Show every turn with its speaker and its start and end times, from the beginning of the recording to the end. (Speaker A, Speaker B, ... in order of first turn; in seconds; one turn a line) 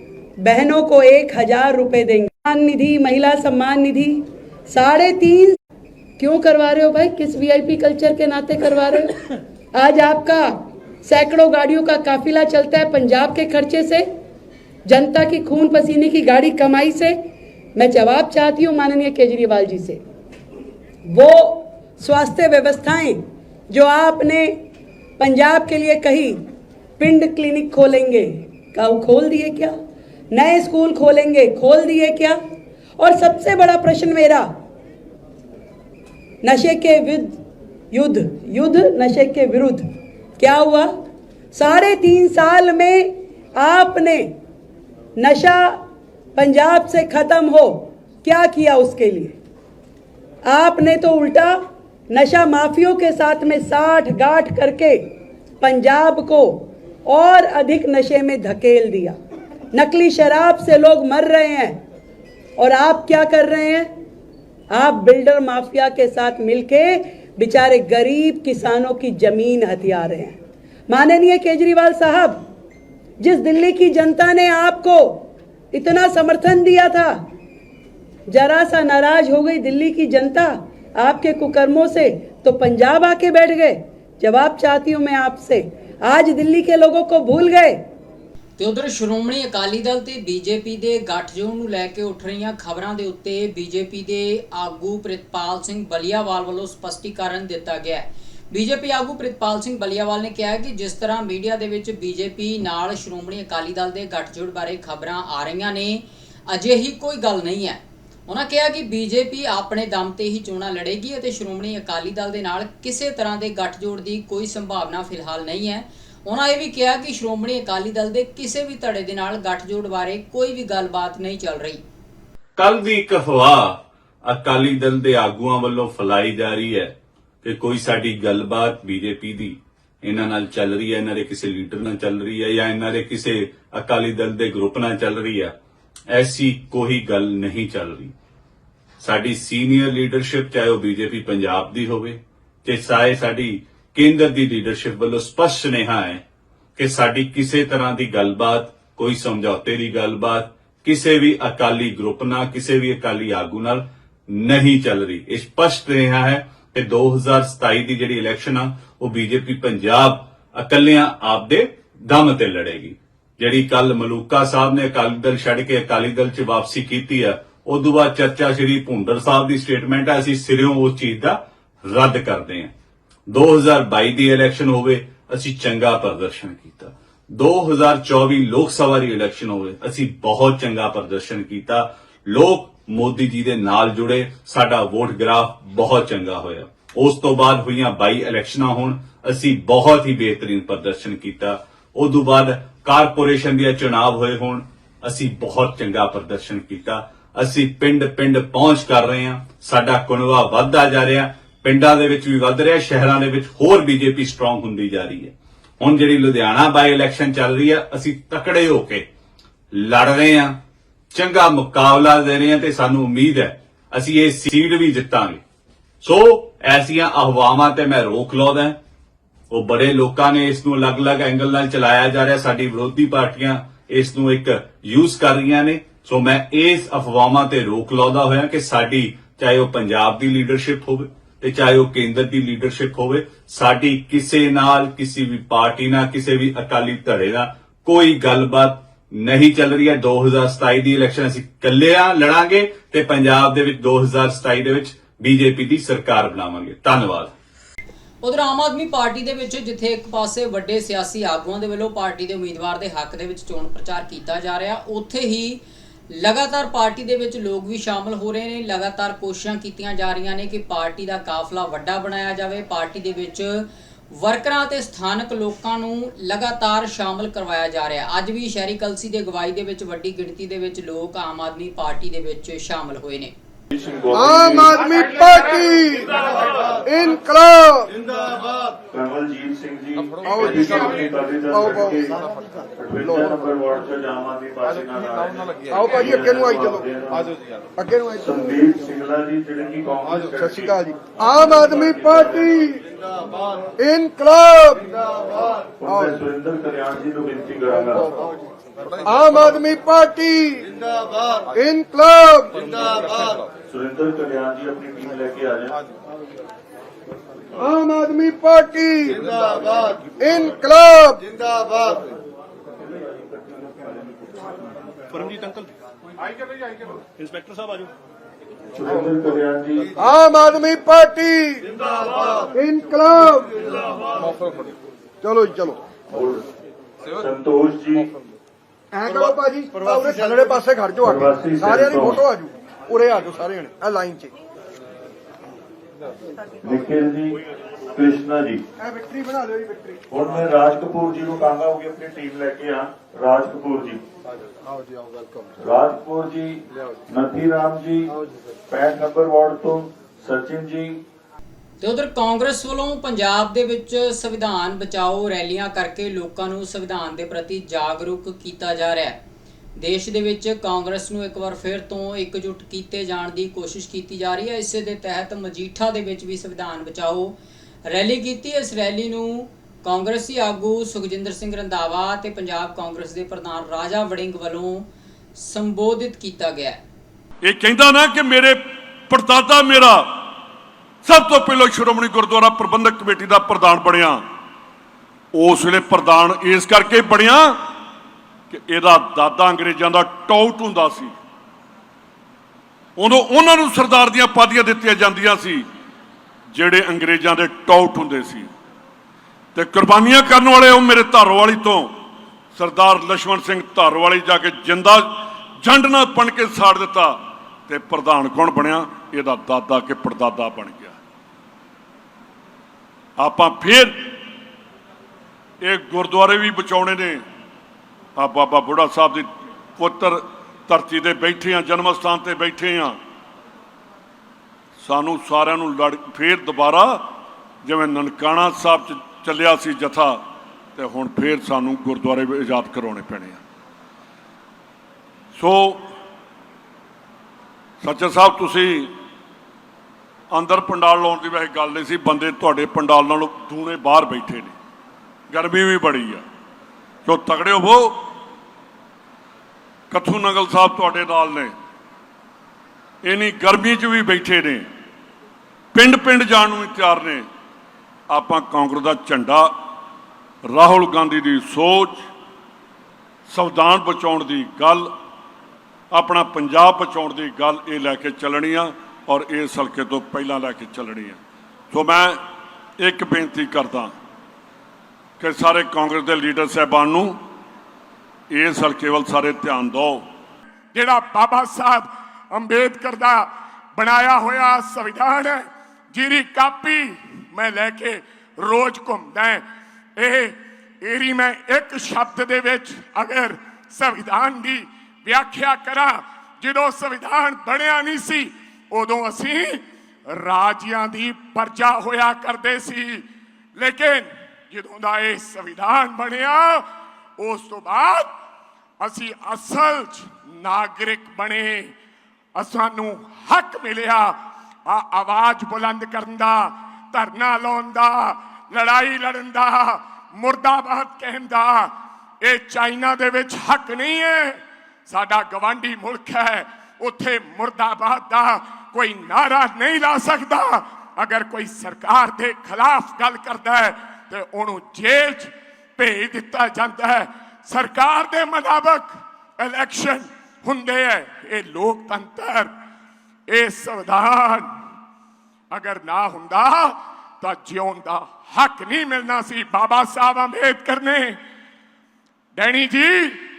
Speaker A: 0.4-5.6
Speaker A: 6.2-9.2
Speaker A: 9.7-14.1
Speaker A: 14.9-17.2
Speaker A: 17.8-20.0
Speaker A: 21.1-24.6
Speaker A: 25.2-26.4
Speaker A: 27.0-29.8
Speaker A: 30.3-32.4
Speaker A: 33.0-34.5
Speaker A: 36.4-37.4
Speaker A: 37.9-39.9
Speaker A: 40.4-41.0
Speaker A: 41.5-44.3
Speaker A: 45.2-45.8
Speaker A: 46.4-49.4
Speaker A: 50.5-55.1
Speaker A: 55.6-59.2
Speaker A: 59.7-61.8
Speaker A: 62.6-63.9
Speaker A: 64.7-70.4
Speaker A: 70.9-72.4
Speaker A: 73.2-77.2
Speaker A: 78.3-87.8
Speaker B: 88.6-121.8
Speaker C: 122.6-135.6
Speaker C: 136.1-138.1
Speaker C: 139.0-146.2
Speaker C: 146.8-172.7
Speaker C: 173.3-209.1
Speaker C: 209.7-210.6
Speaker C: 211.1-215.4
Speaker C: 216.0-218.8
Speaker C: 219.5-247.3
Speaker B: 248.2-255.6
Speaker B: 256.1-273.3
Speaker D: 273.7-274.8
Speaker E: 274.1-276.2
Speaker E: 276.9-277.9
Speaker D: 278.9-282.2
Speaker E: 280.2-281.0
Speaker E: 281.5-282.0
Speaker D: 282.8-287.3
Speaker E: 283.0-283.4
Speaker E: 285.7-286.8
Speaker E: 287.8-288.3
Speaker D: 288.2-290.8
Speaker E: 290.4-292.8
Speaker D: 291.3-292.5
Speaker E: 293.8-294.9
Speaker D: 295.8-298.1
Speaker E: 295.9-296.2
Speaker E: 299.1-300.7
Speaker E: 301.5-303.0
Speaker D: 303.7-305.8
Speaker E: 307.6-309.3
Speaker E: 310.2-311.3
Speaker D: 313.2-314.6
Speaker D: 318.8-319.9
Speaker E: 320.0-321.7
Speaker E: 322.6-323.9
Speaker E: 325.2-325.8
Speaker D: 326.1-326.5
Speaker D: 327.2-328.1
Speaker E: 328.9-334.3
Speaker D: 331.0-332.2
Speaker D: 336.6-337.4
Speaker D: 337.9-338.6
Speaker E: 338.8-340.0
Speaker D: 340.1-344.0
Speaker D: 345.6-348.1
Speaker D: 348.7-351.0
Speaker B: 351.8-359.2
Speaker B: 359.8-367.4
Speaker B: 367.9-376.8
Speaker F: 377.4-380.4
Speaker F: 381.0-384.2
Speaker F: 385.3-387.7
Speaker F: 388.5-391.1
Speaker F: 393.0-395.7
Speaker F: 396.5-398.5
Speaker F: 399.6-401.9
Speaker F: 402.5-411.0
Speaker F: 413.2-414.2
Speaker F: 415.6-417.2
Speaker F: 418.2-423.0
Speaker F: 424.8-430.2
Speaker F: 430.8-433.4
Speaker F: 435.4-435.9
Speaker F: 437.8-438.9
Speaker F: 440.3-444.5
Speaker F: 445.3-446.2
Speaker F: 447.1-448.0
Speaker F: 449.9-451.5
Speaker F: 453.0-454.7
Speaker F: 455.7-457.3
Speaker F: 458.1-459.6
Speaker F: 460.4-462.1
Speaker F: 463.3-464.9
Speaker F: 465.9-471.2
Speaker F: 471.7-472.2
Speaker F: 472.8-473.9
Speaker F: 475.2-477.2
Speaker F: 478.3-480.1
Speaker G: 480.7-489.4
Speaker G: 490.0-503.1
Speaker G: 503.6-506.7
Speaker G: 507.2-508.2
Speaker G: 508.8-511.7
Speaker G: 512.4-542.5
Speaker G: 543.3-544.5
Speaker G: 545.5-551.2
Speaker G: 552.4-553.2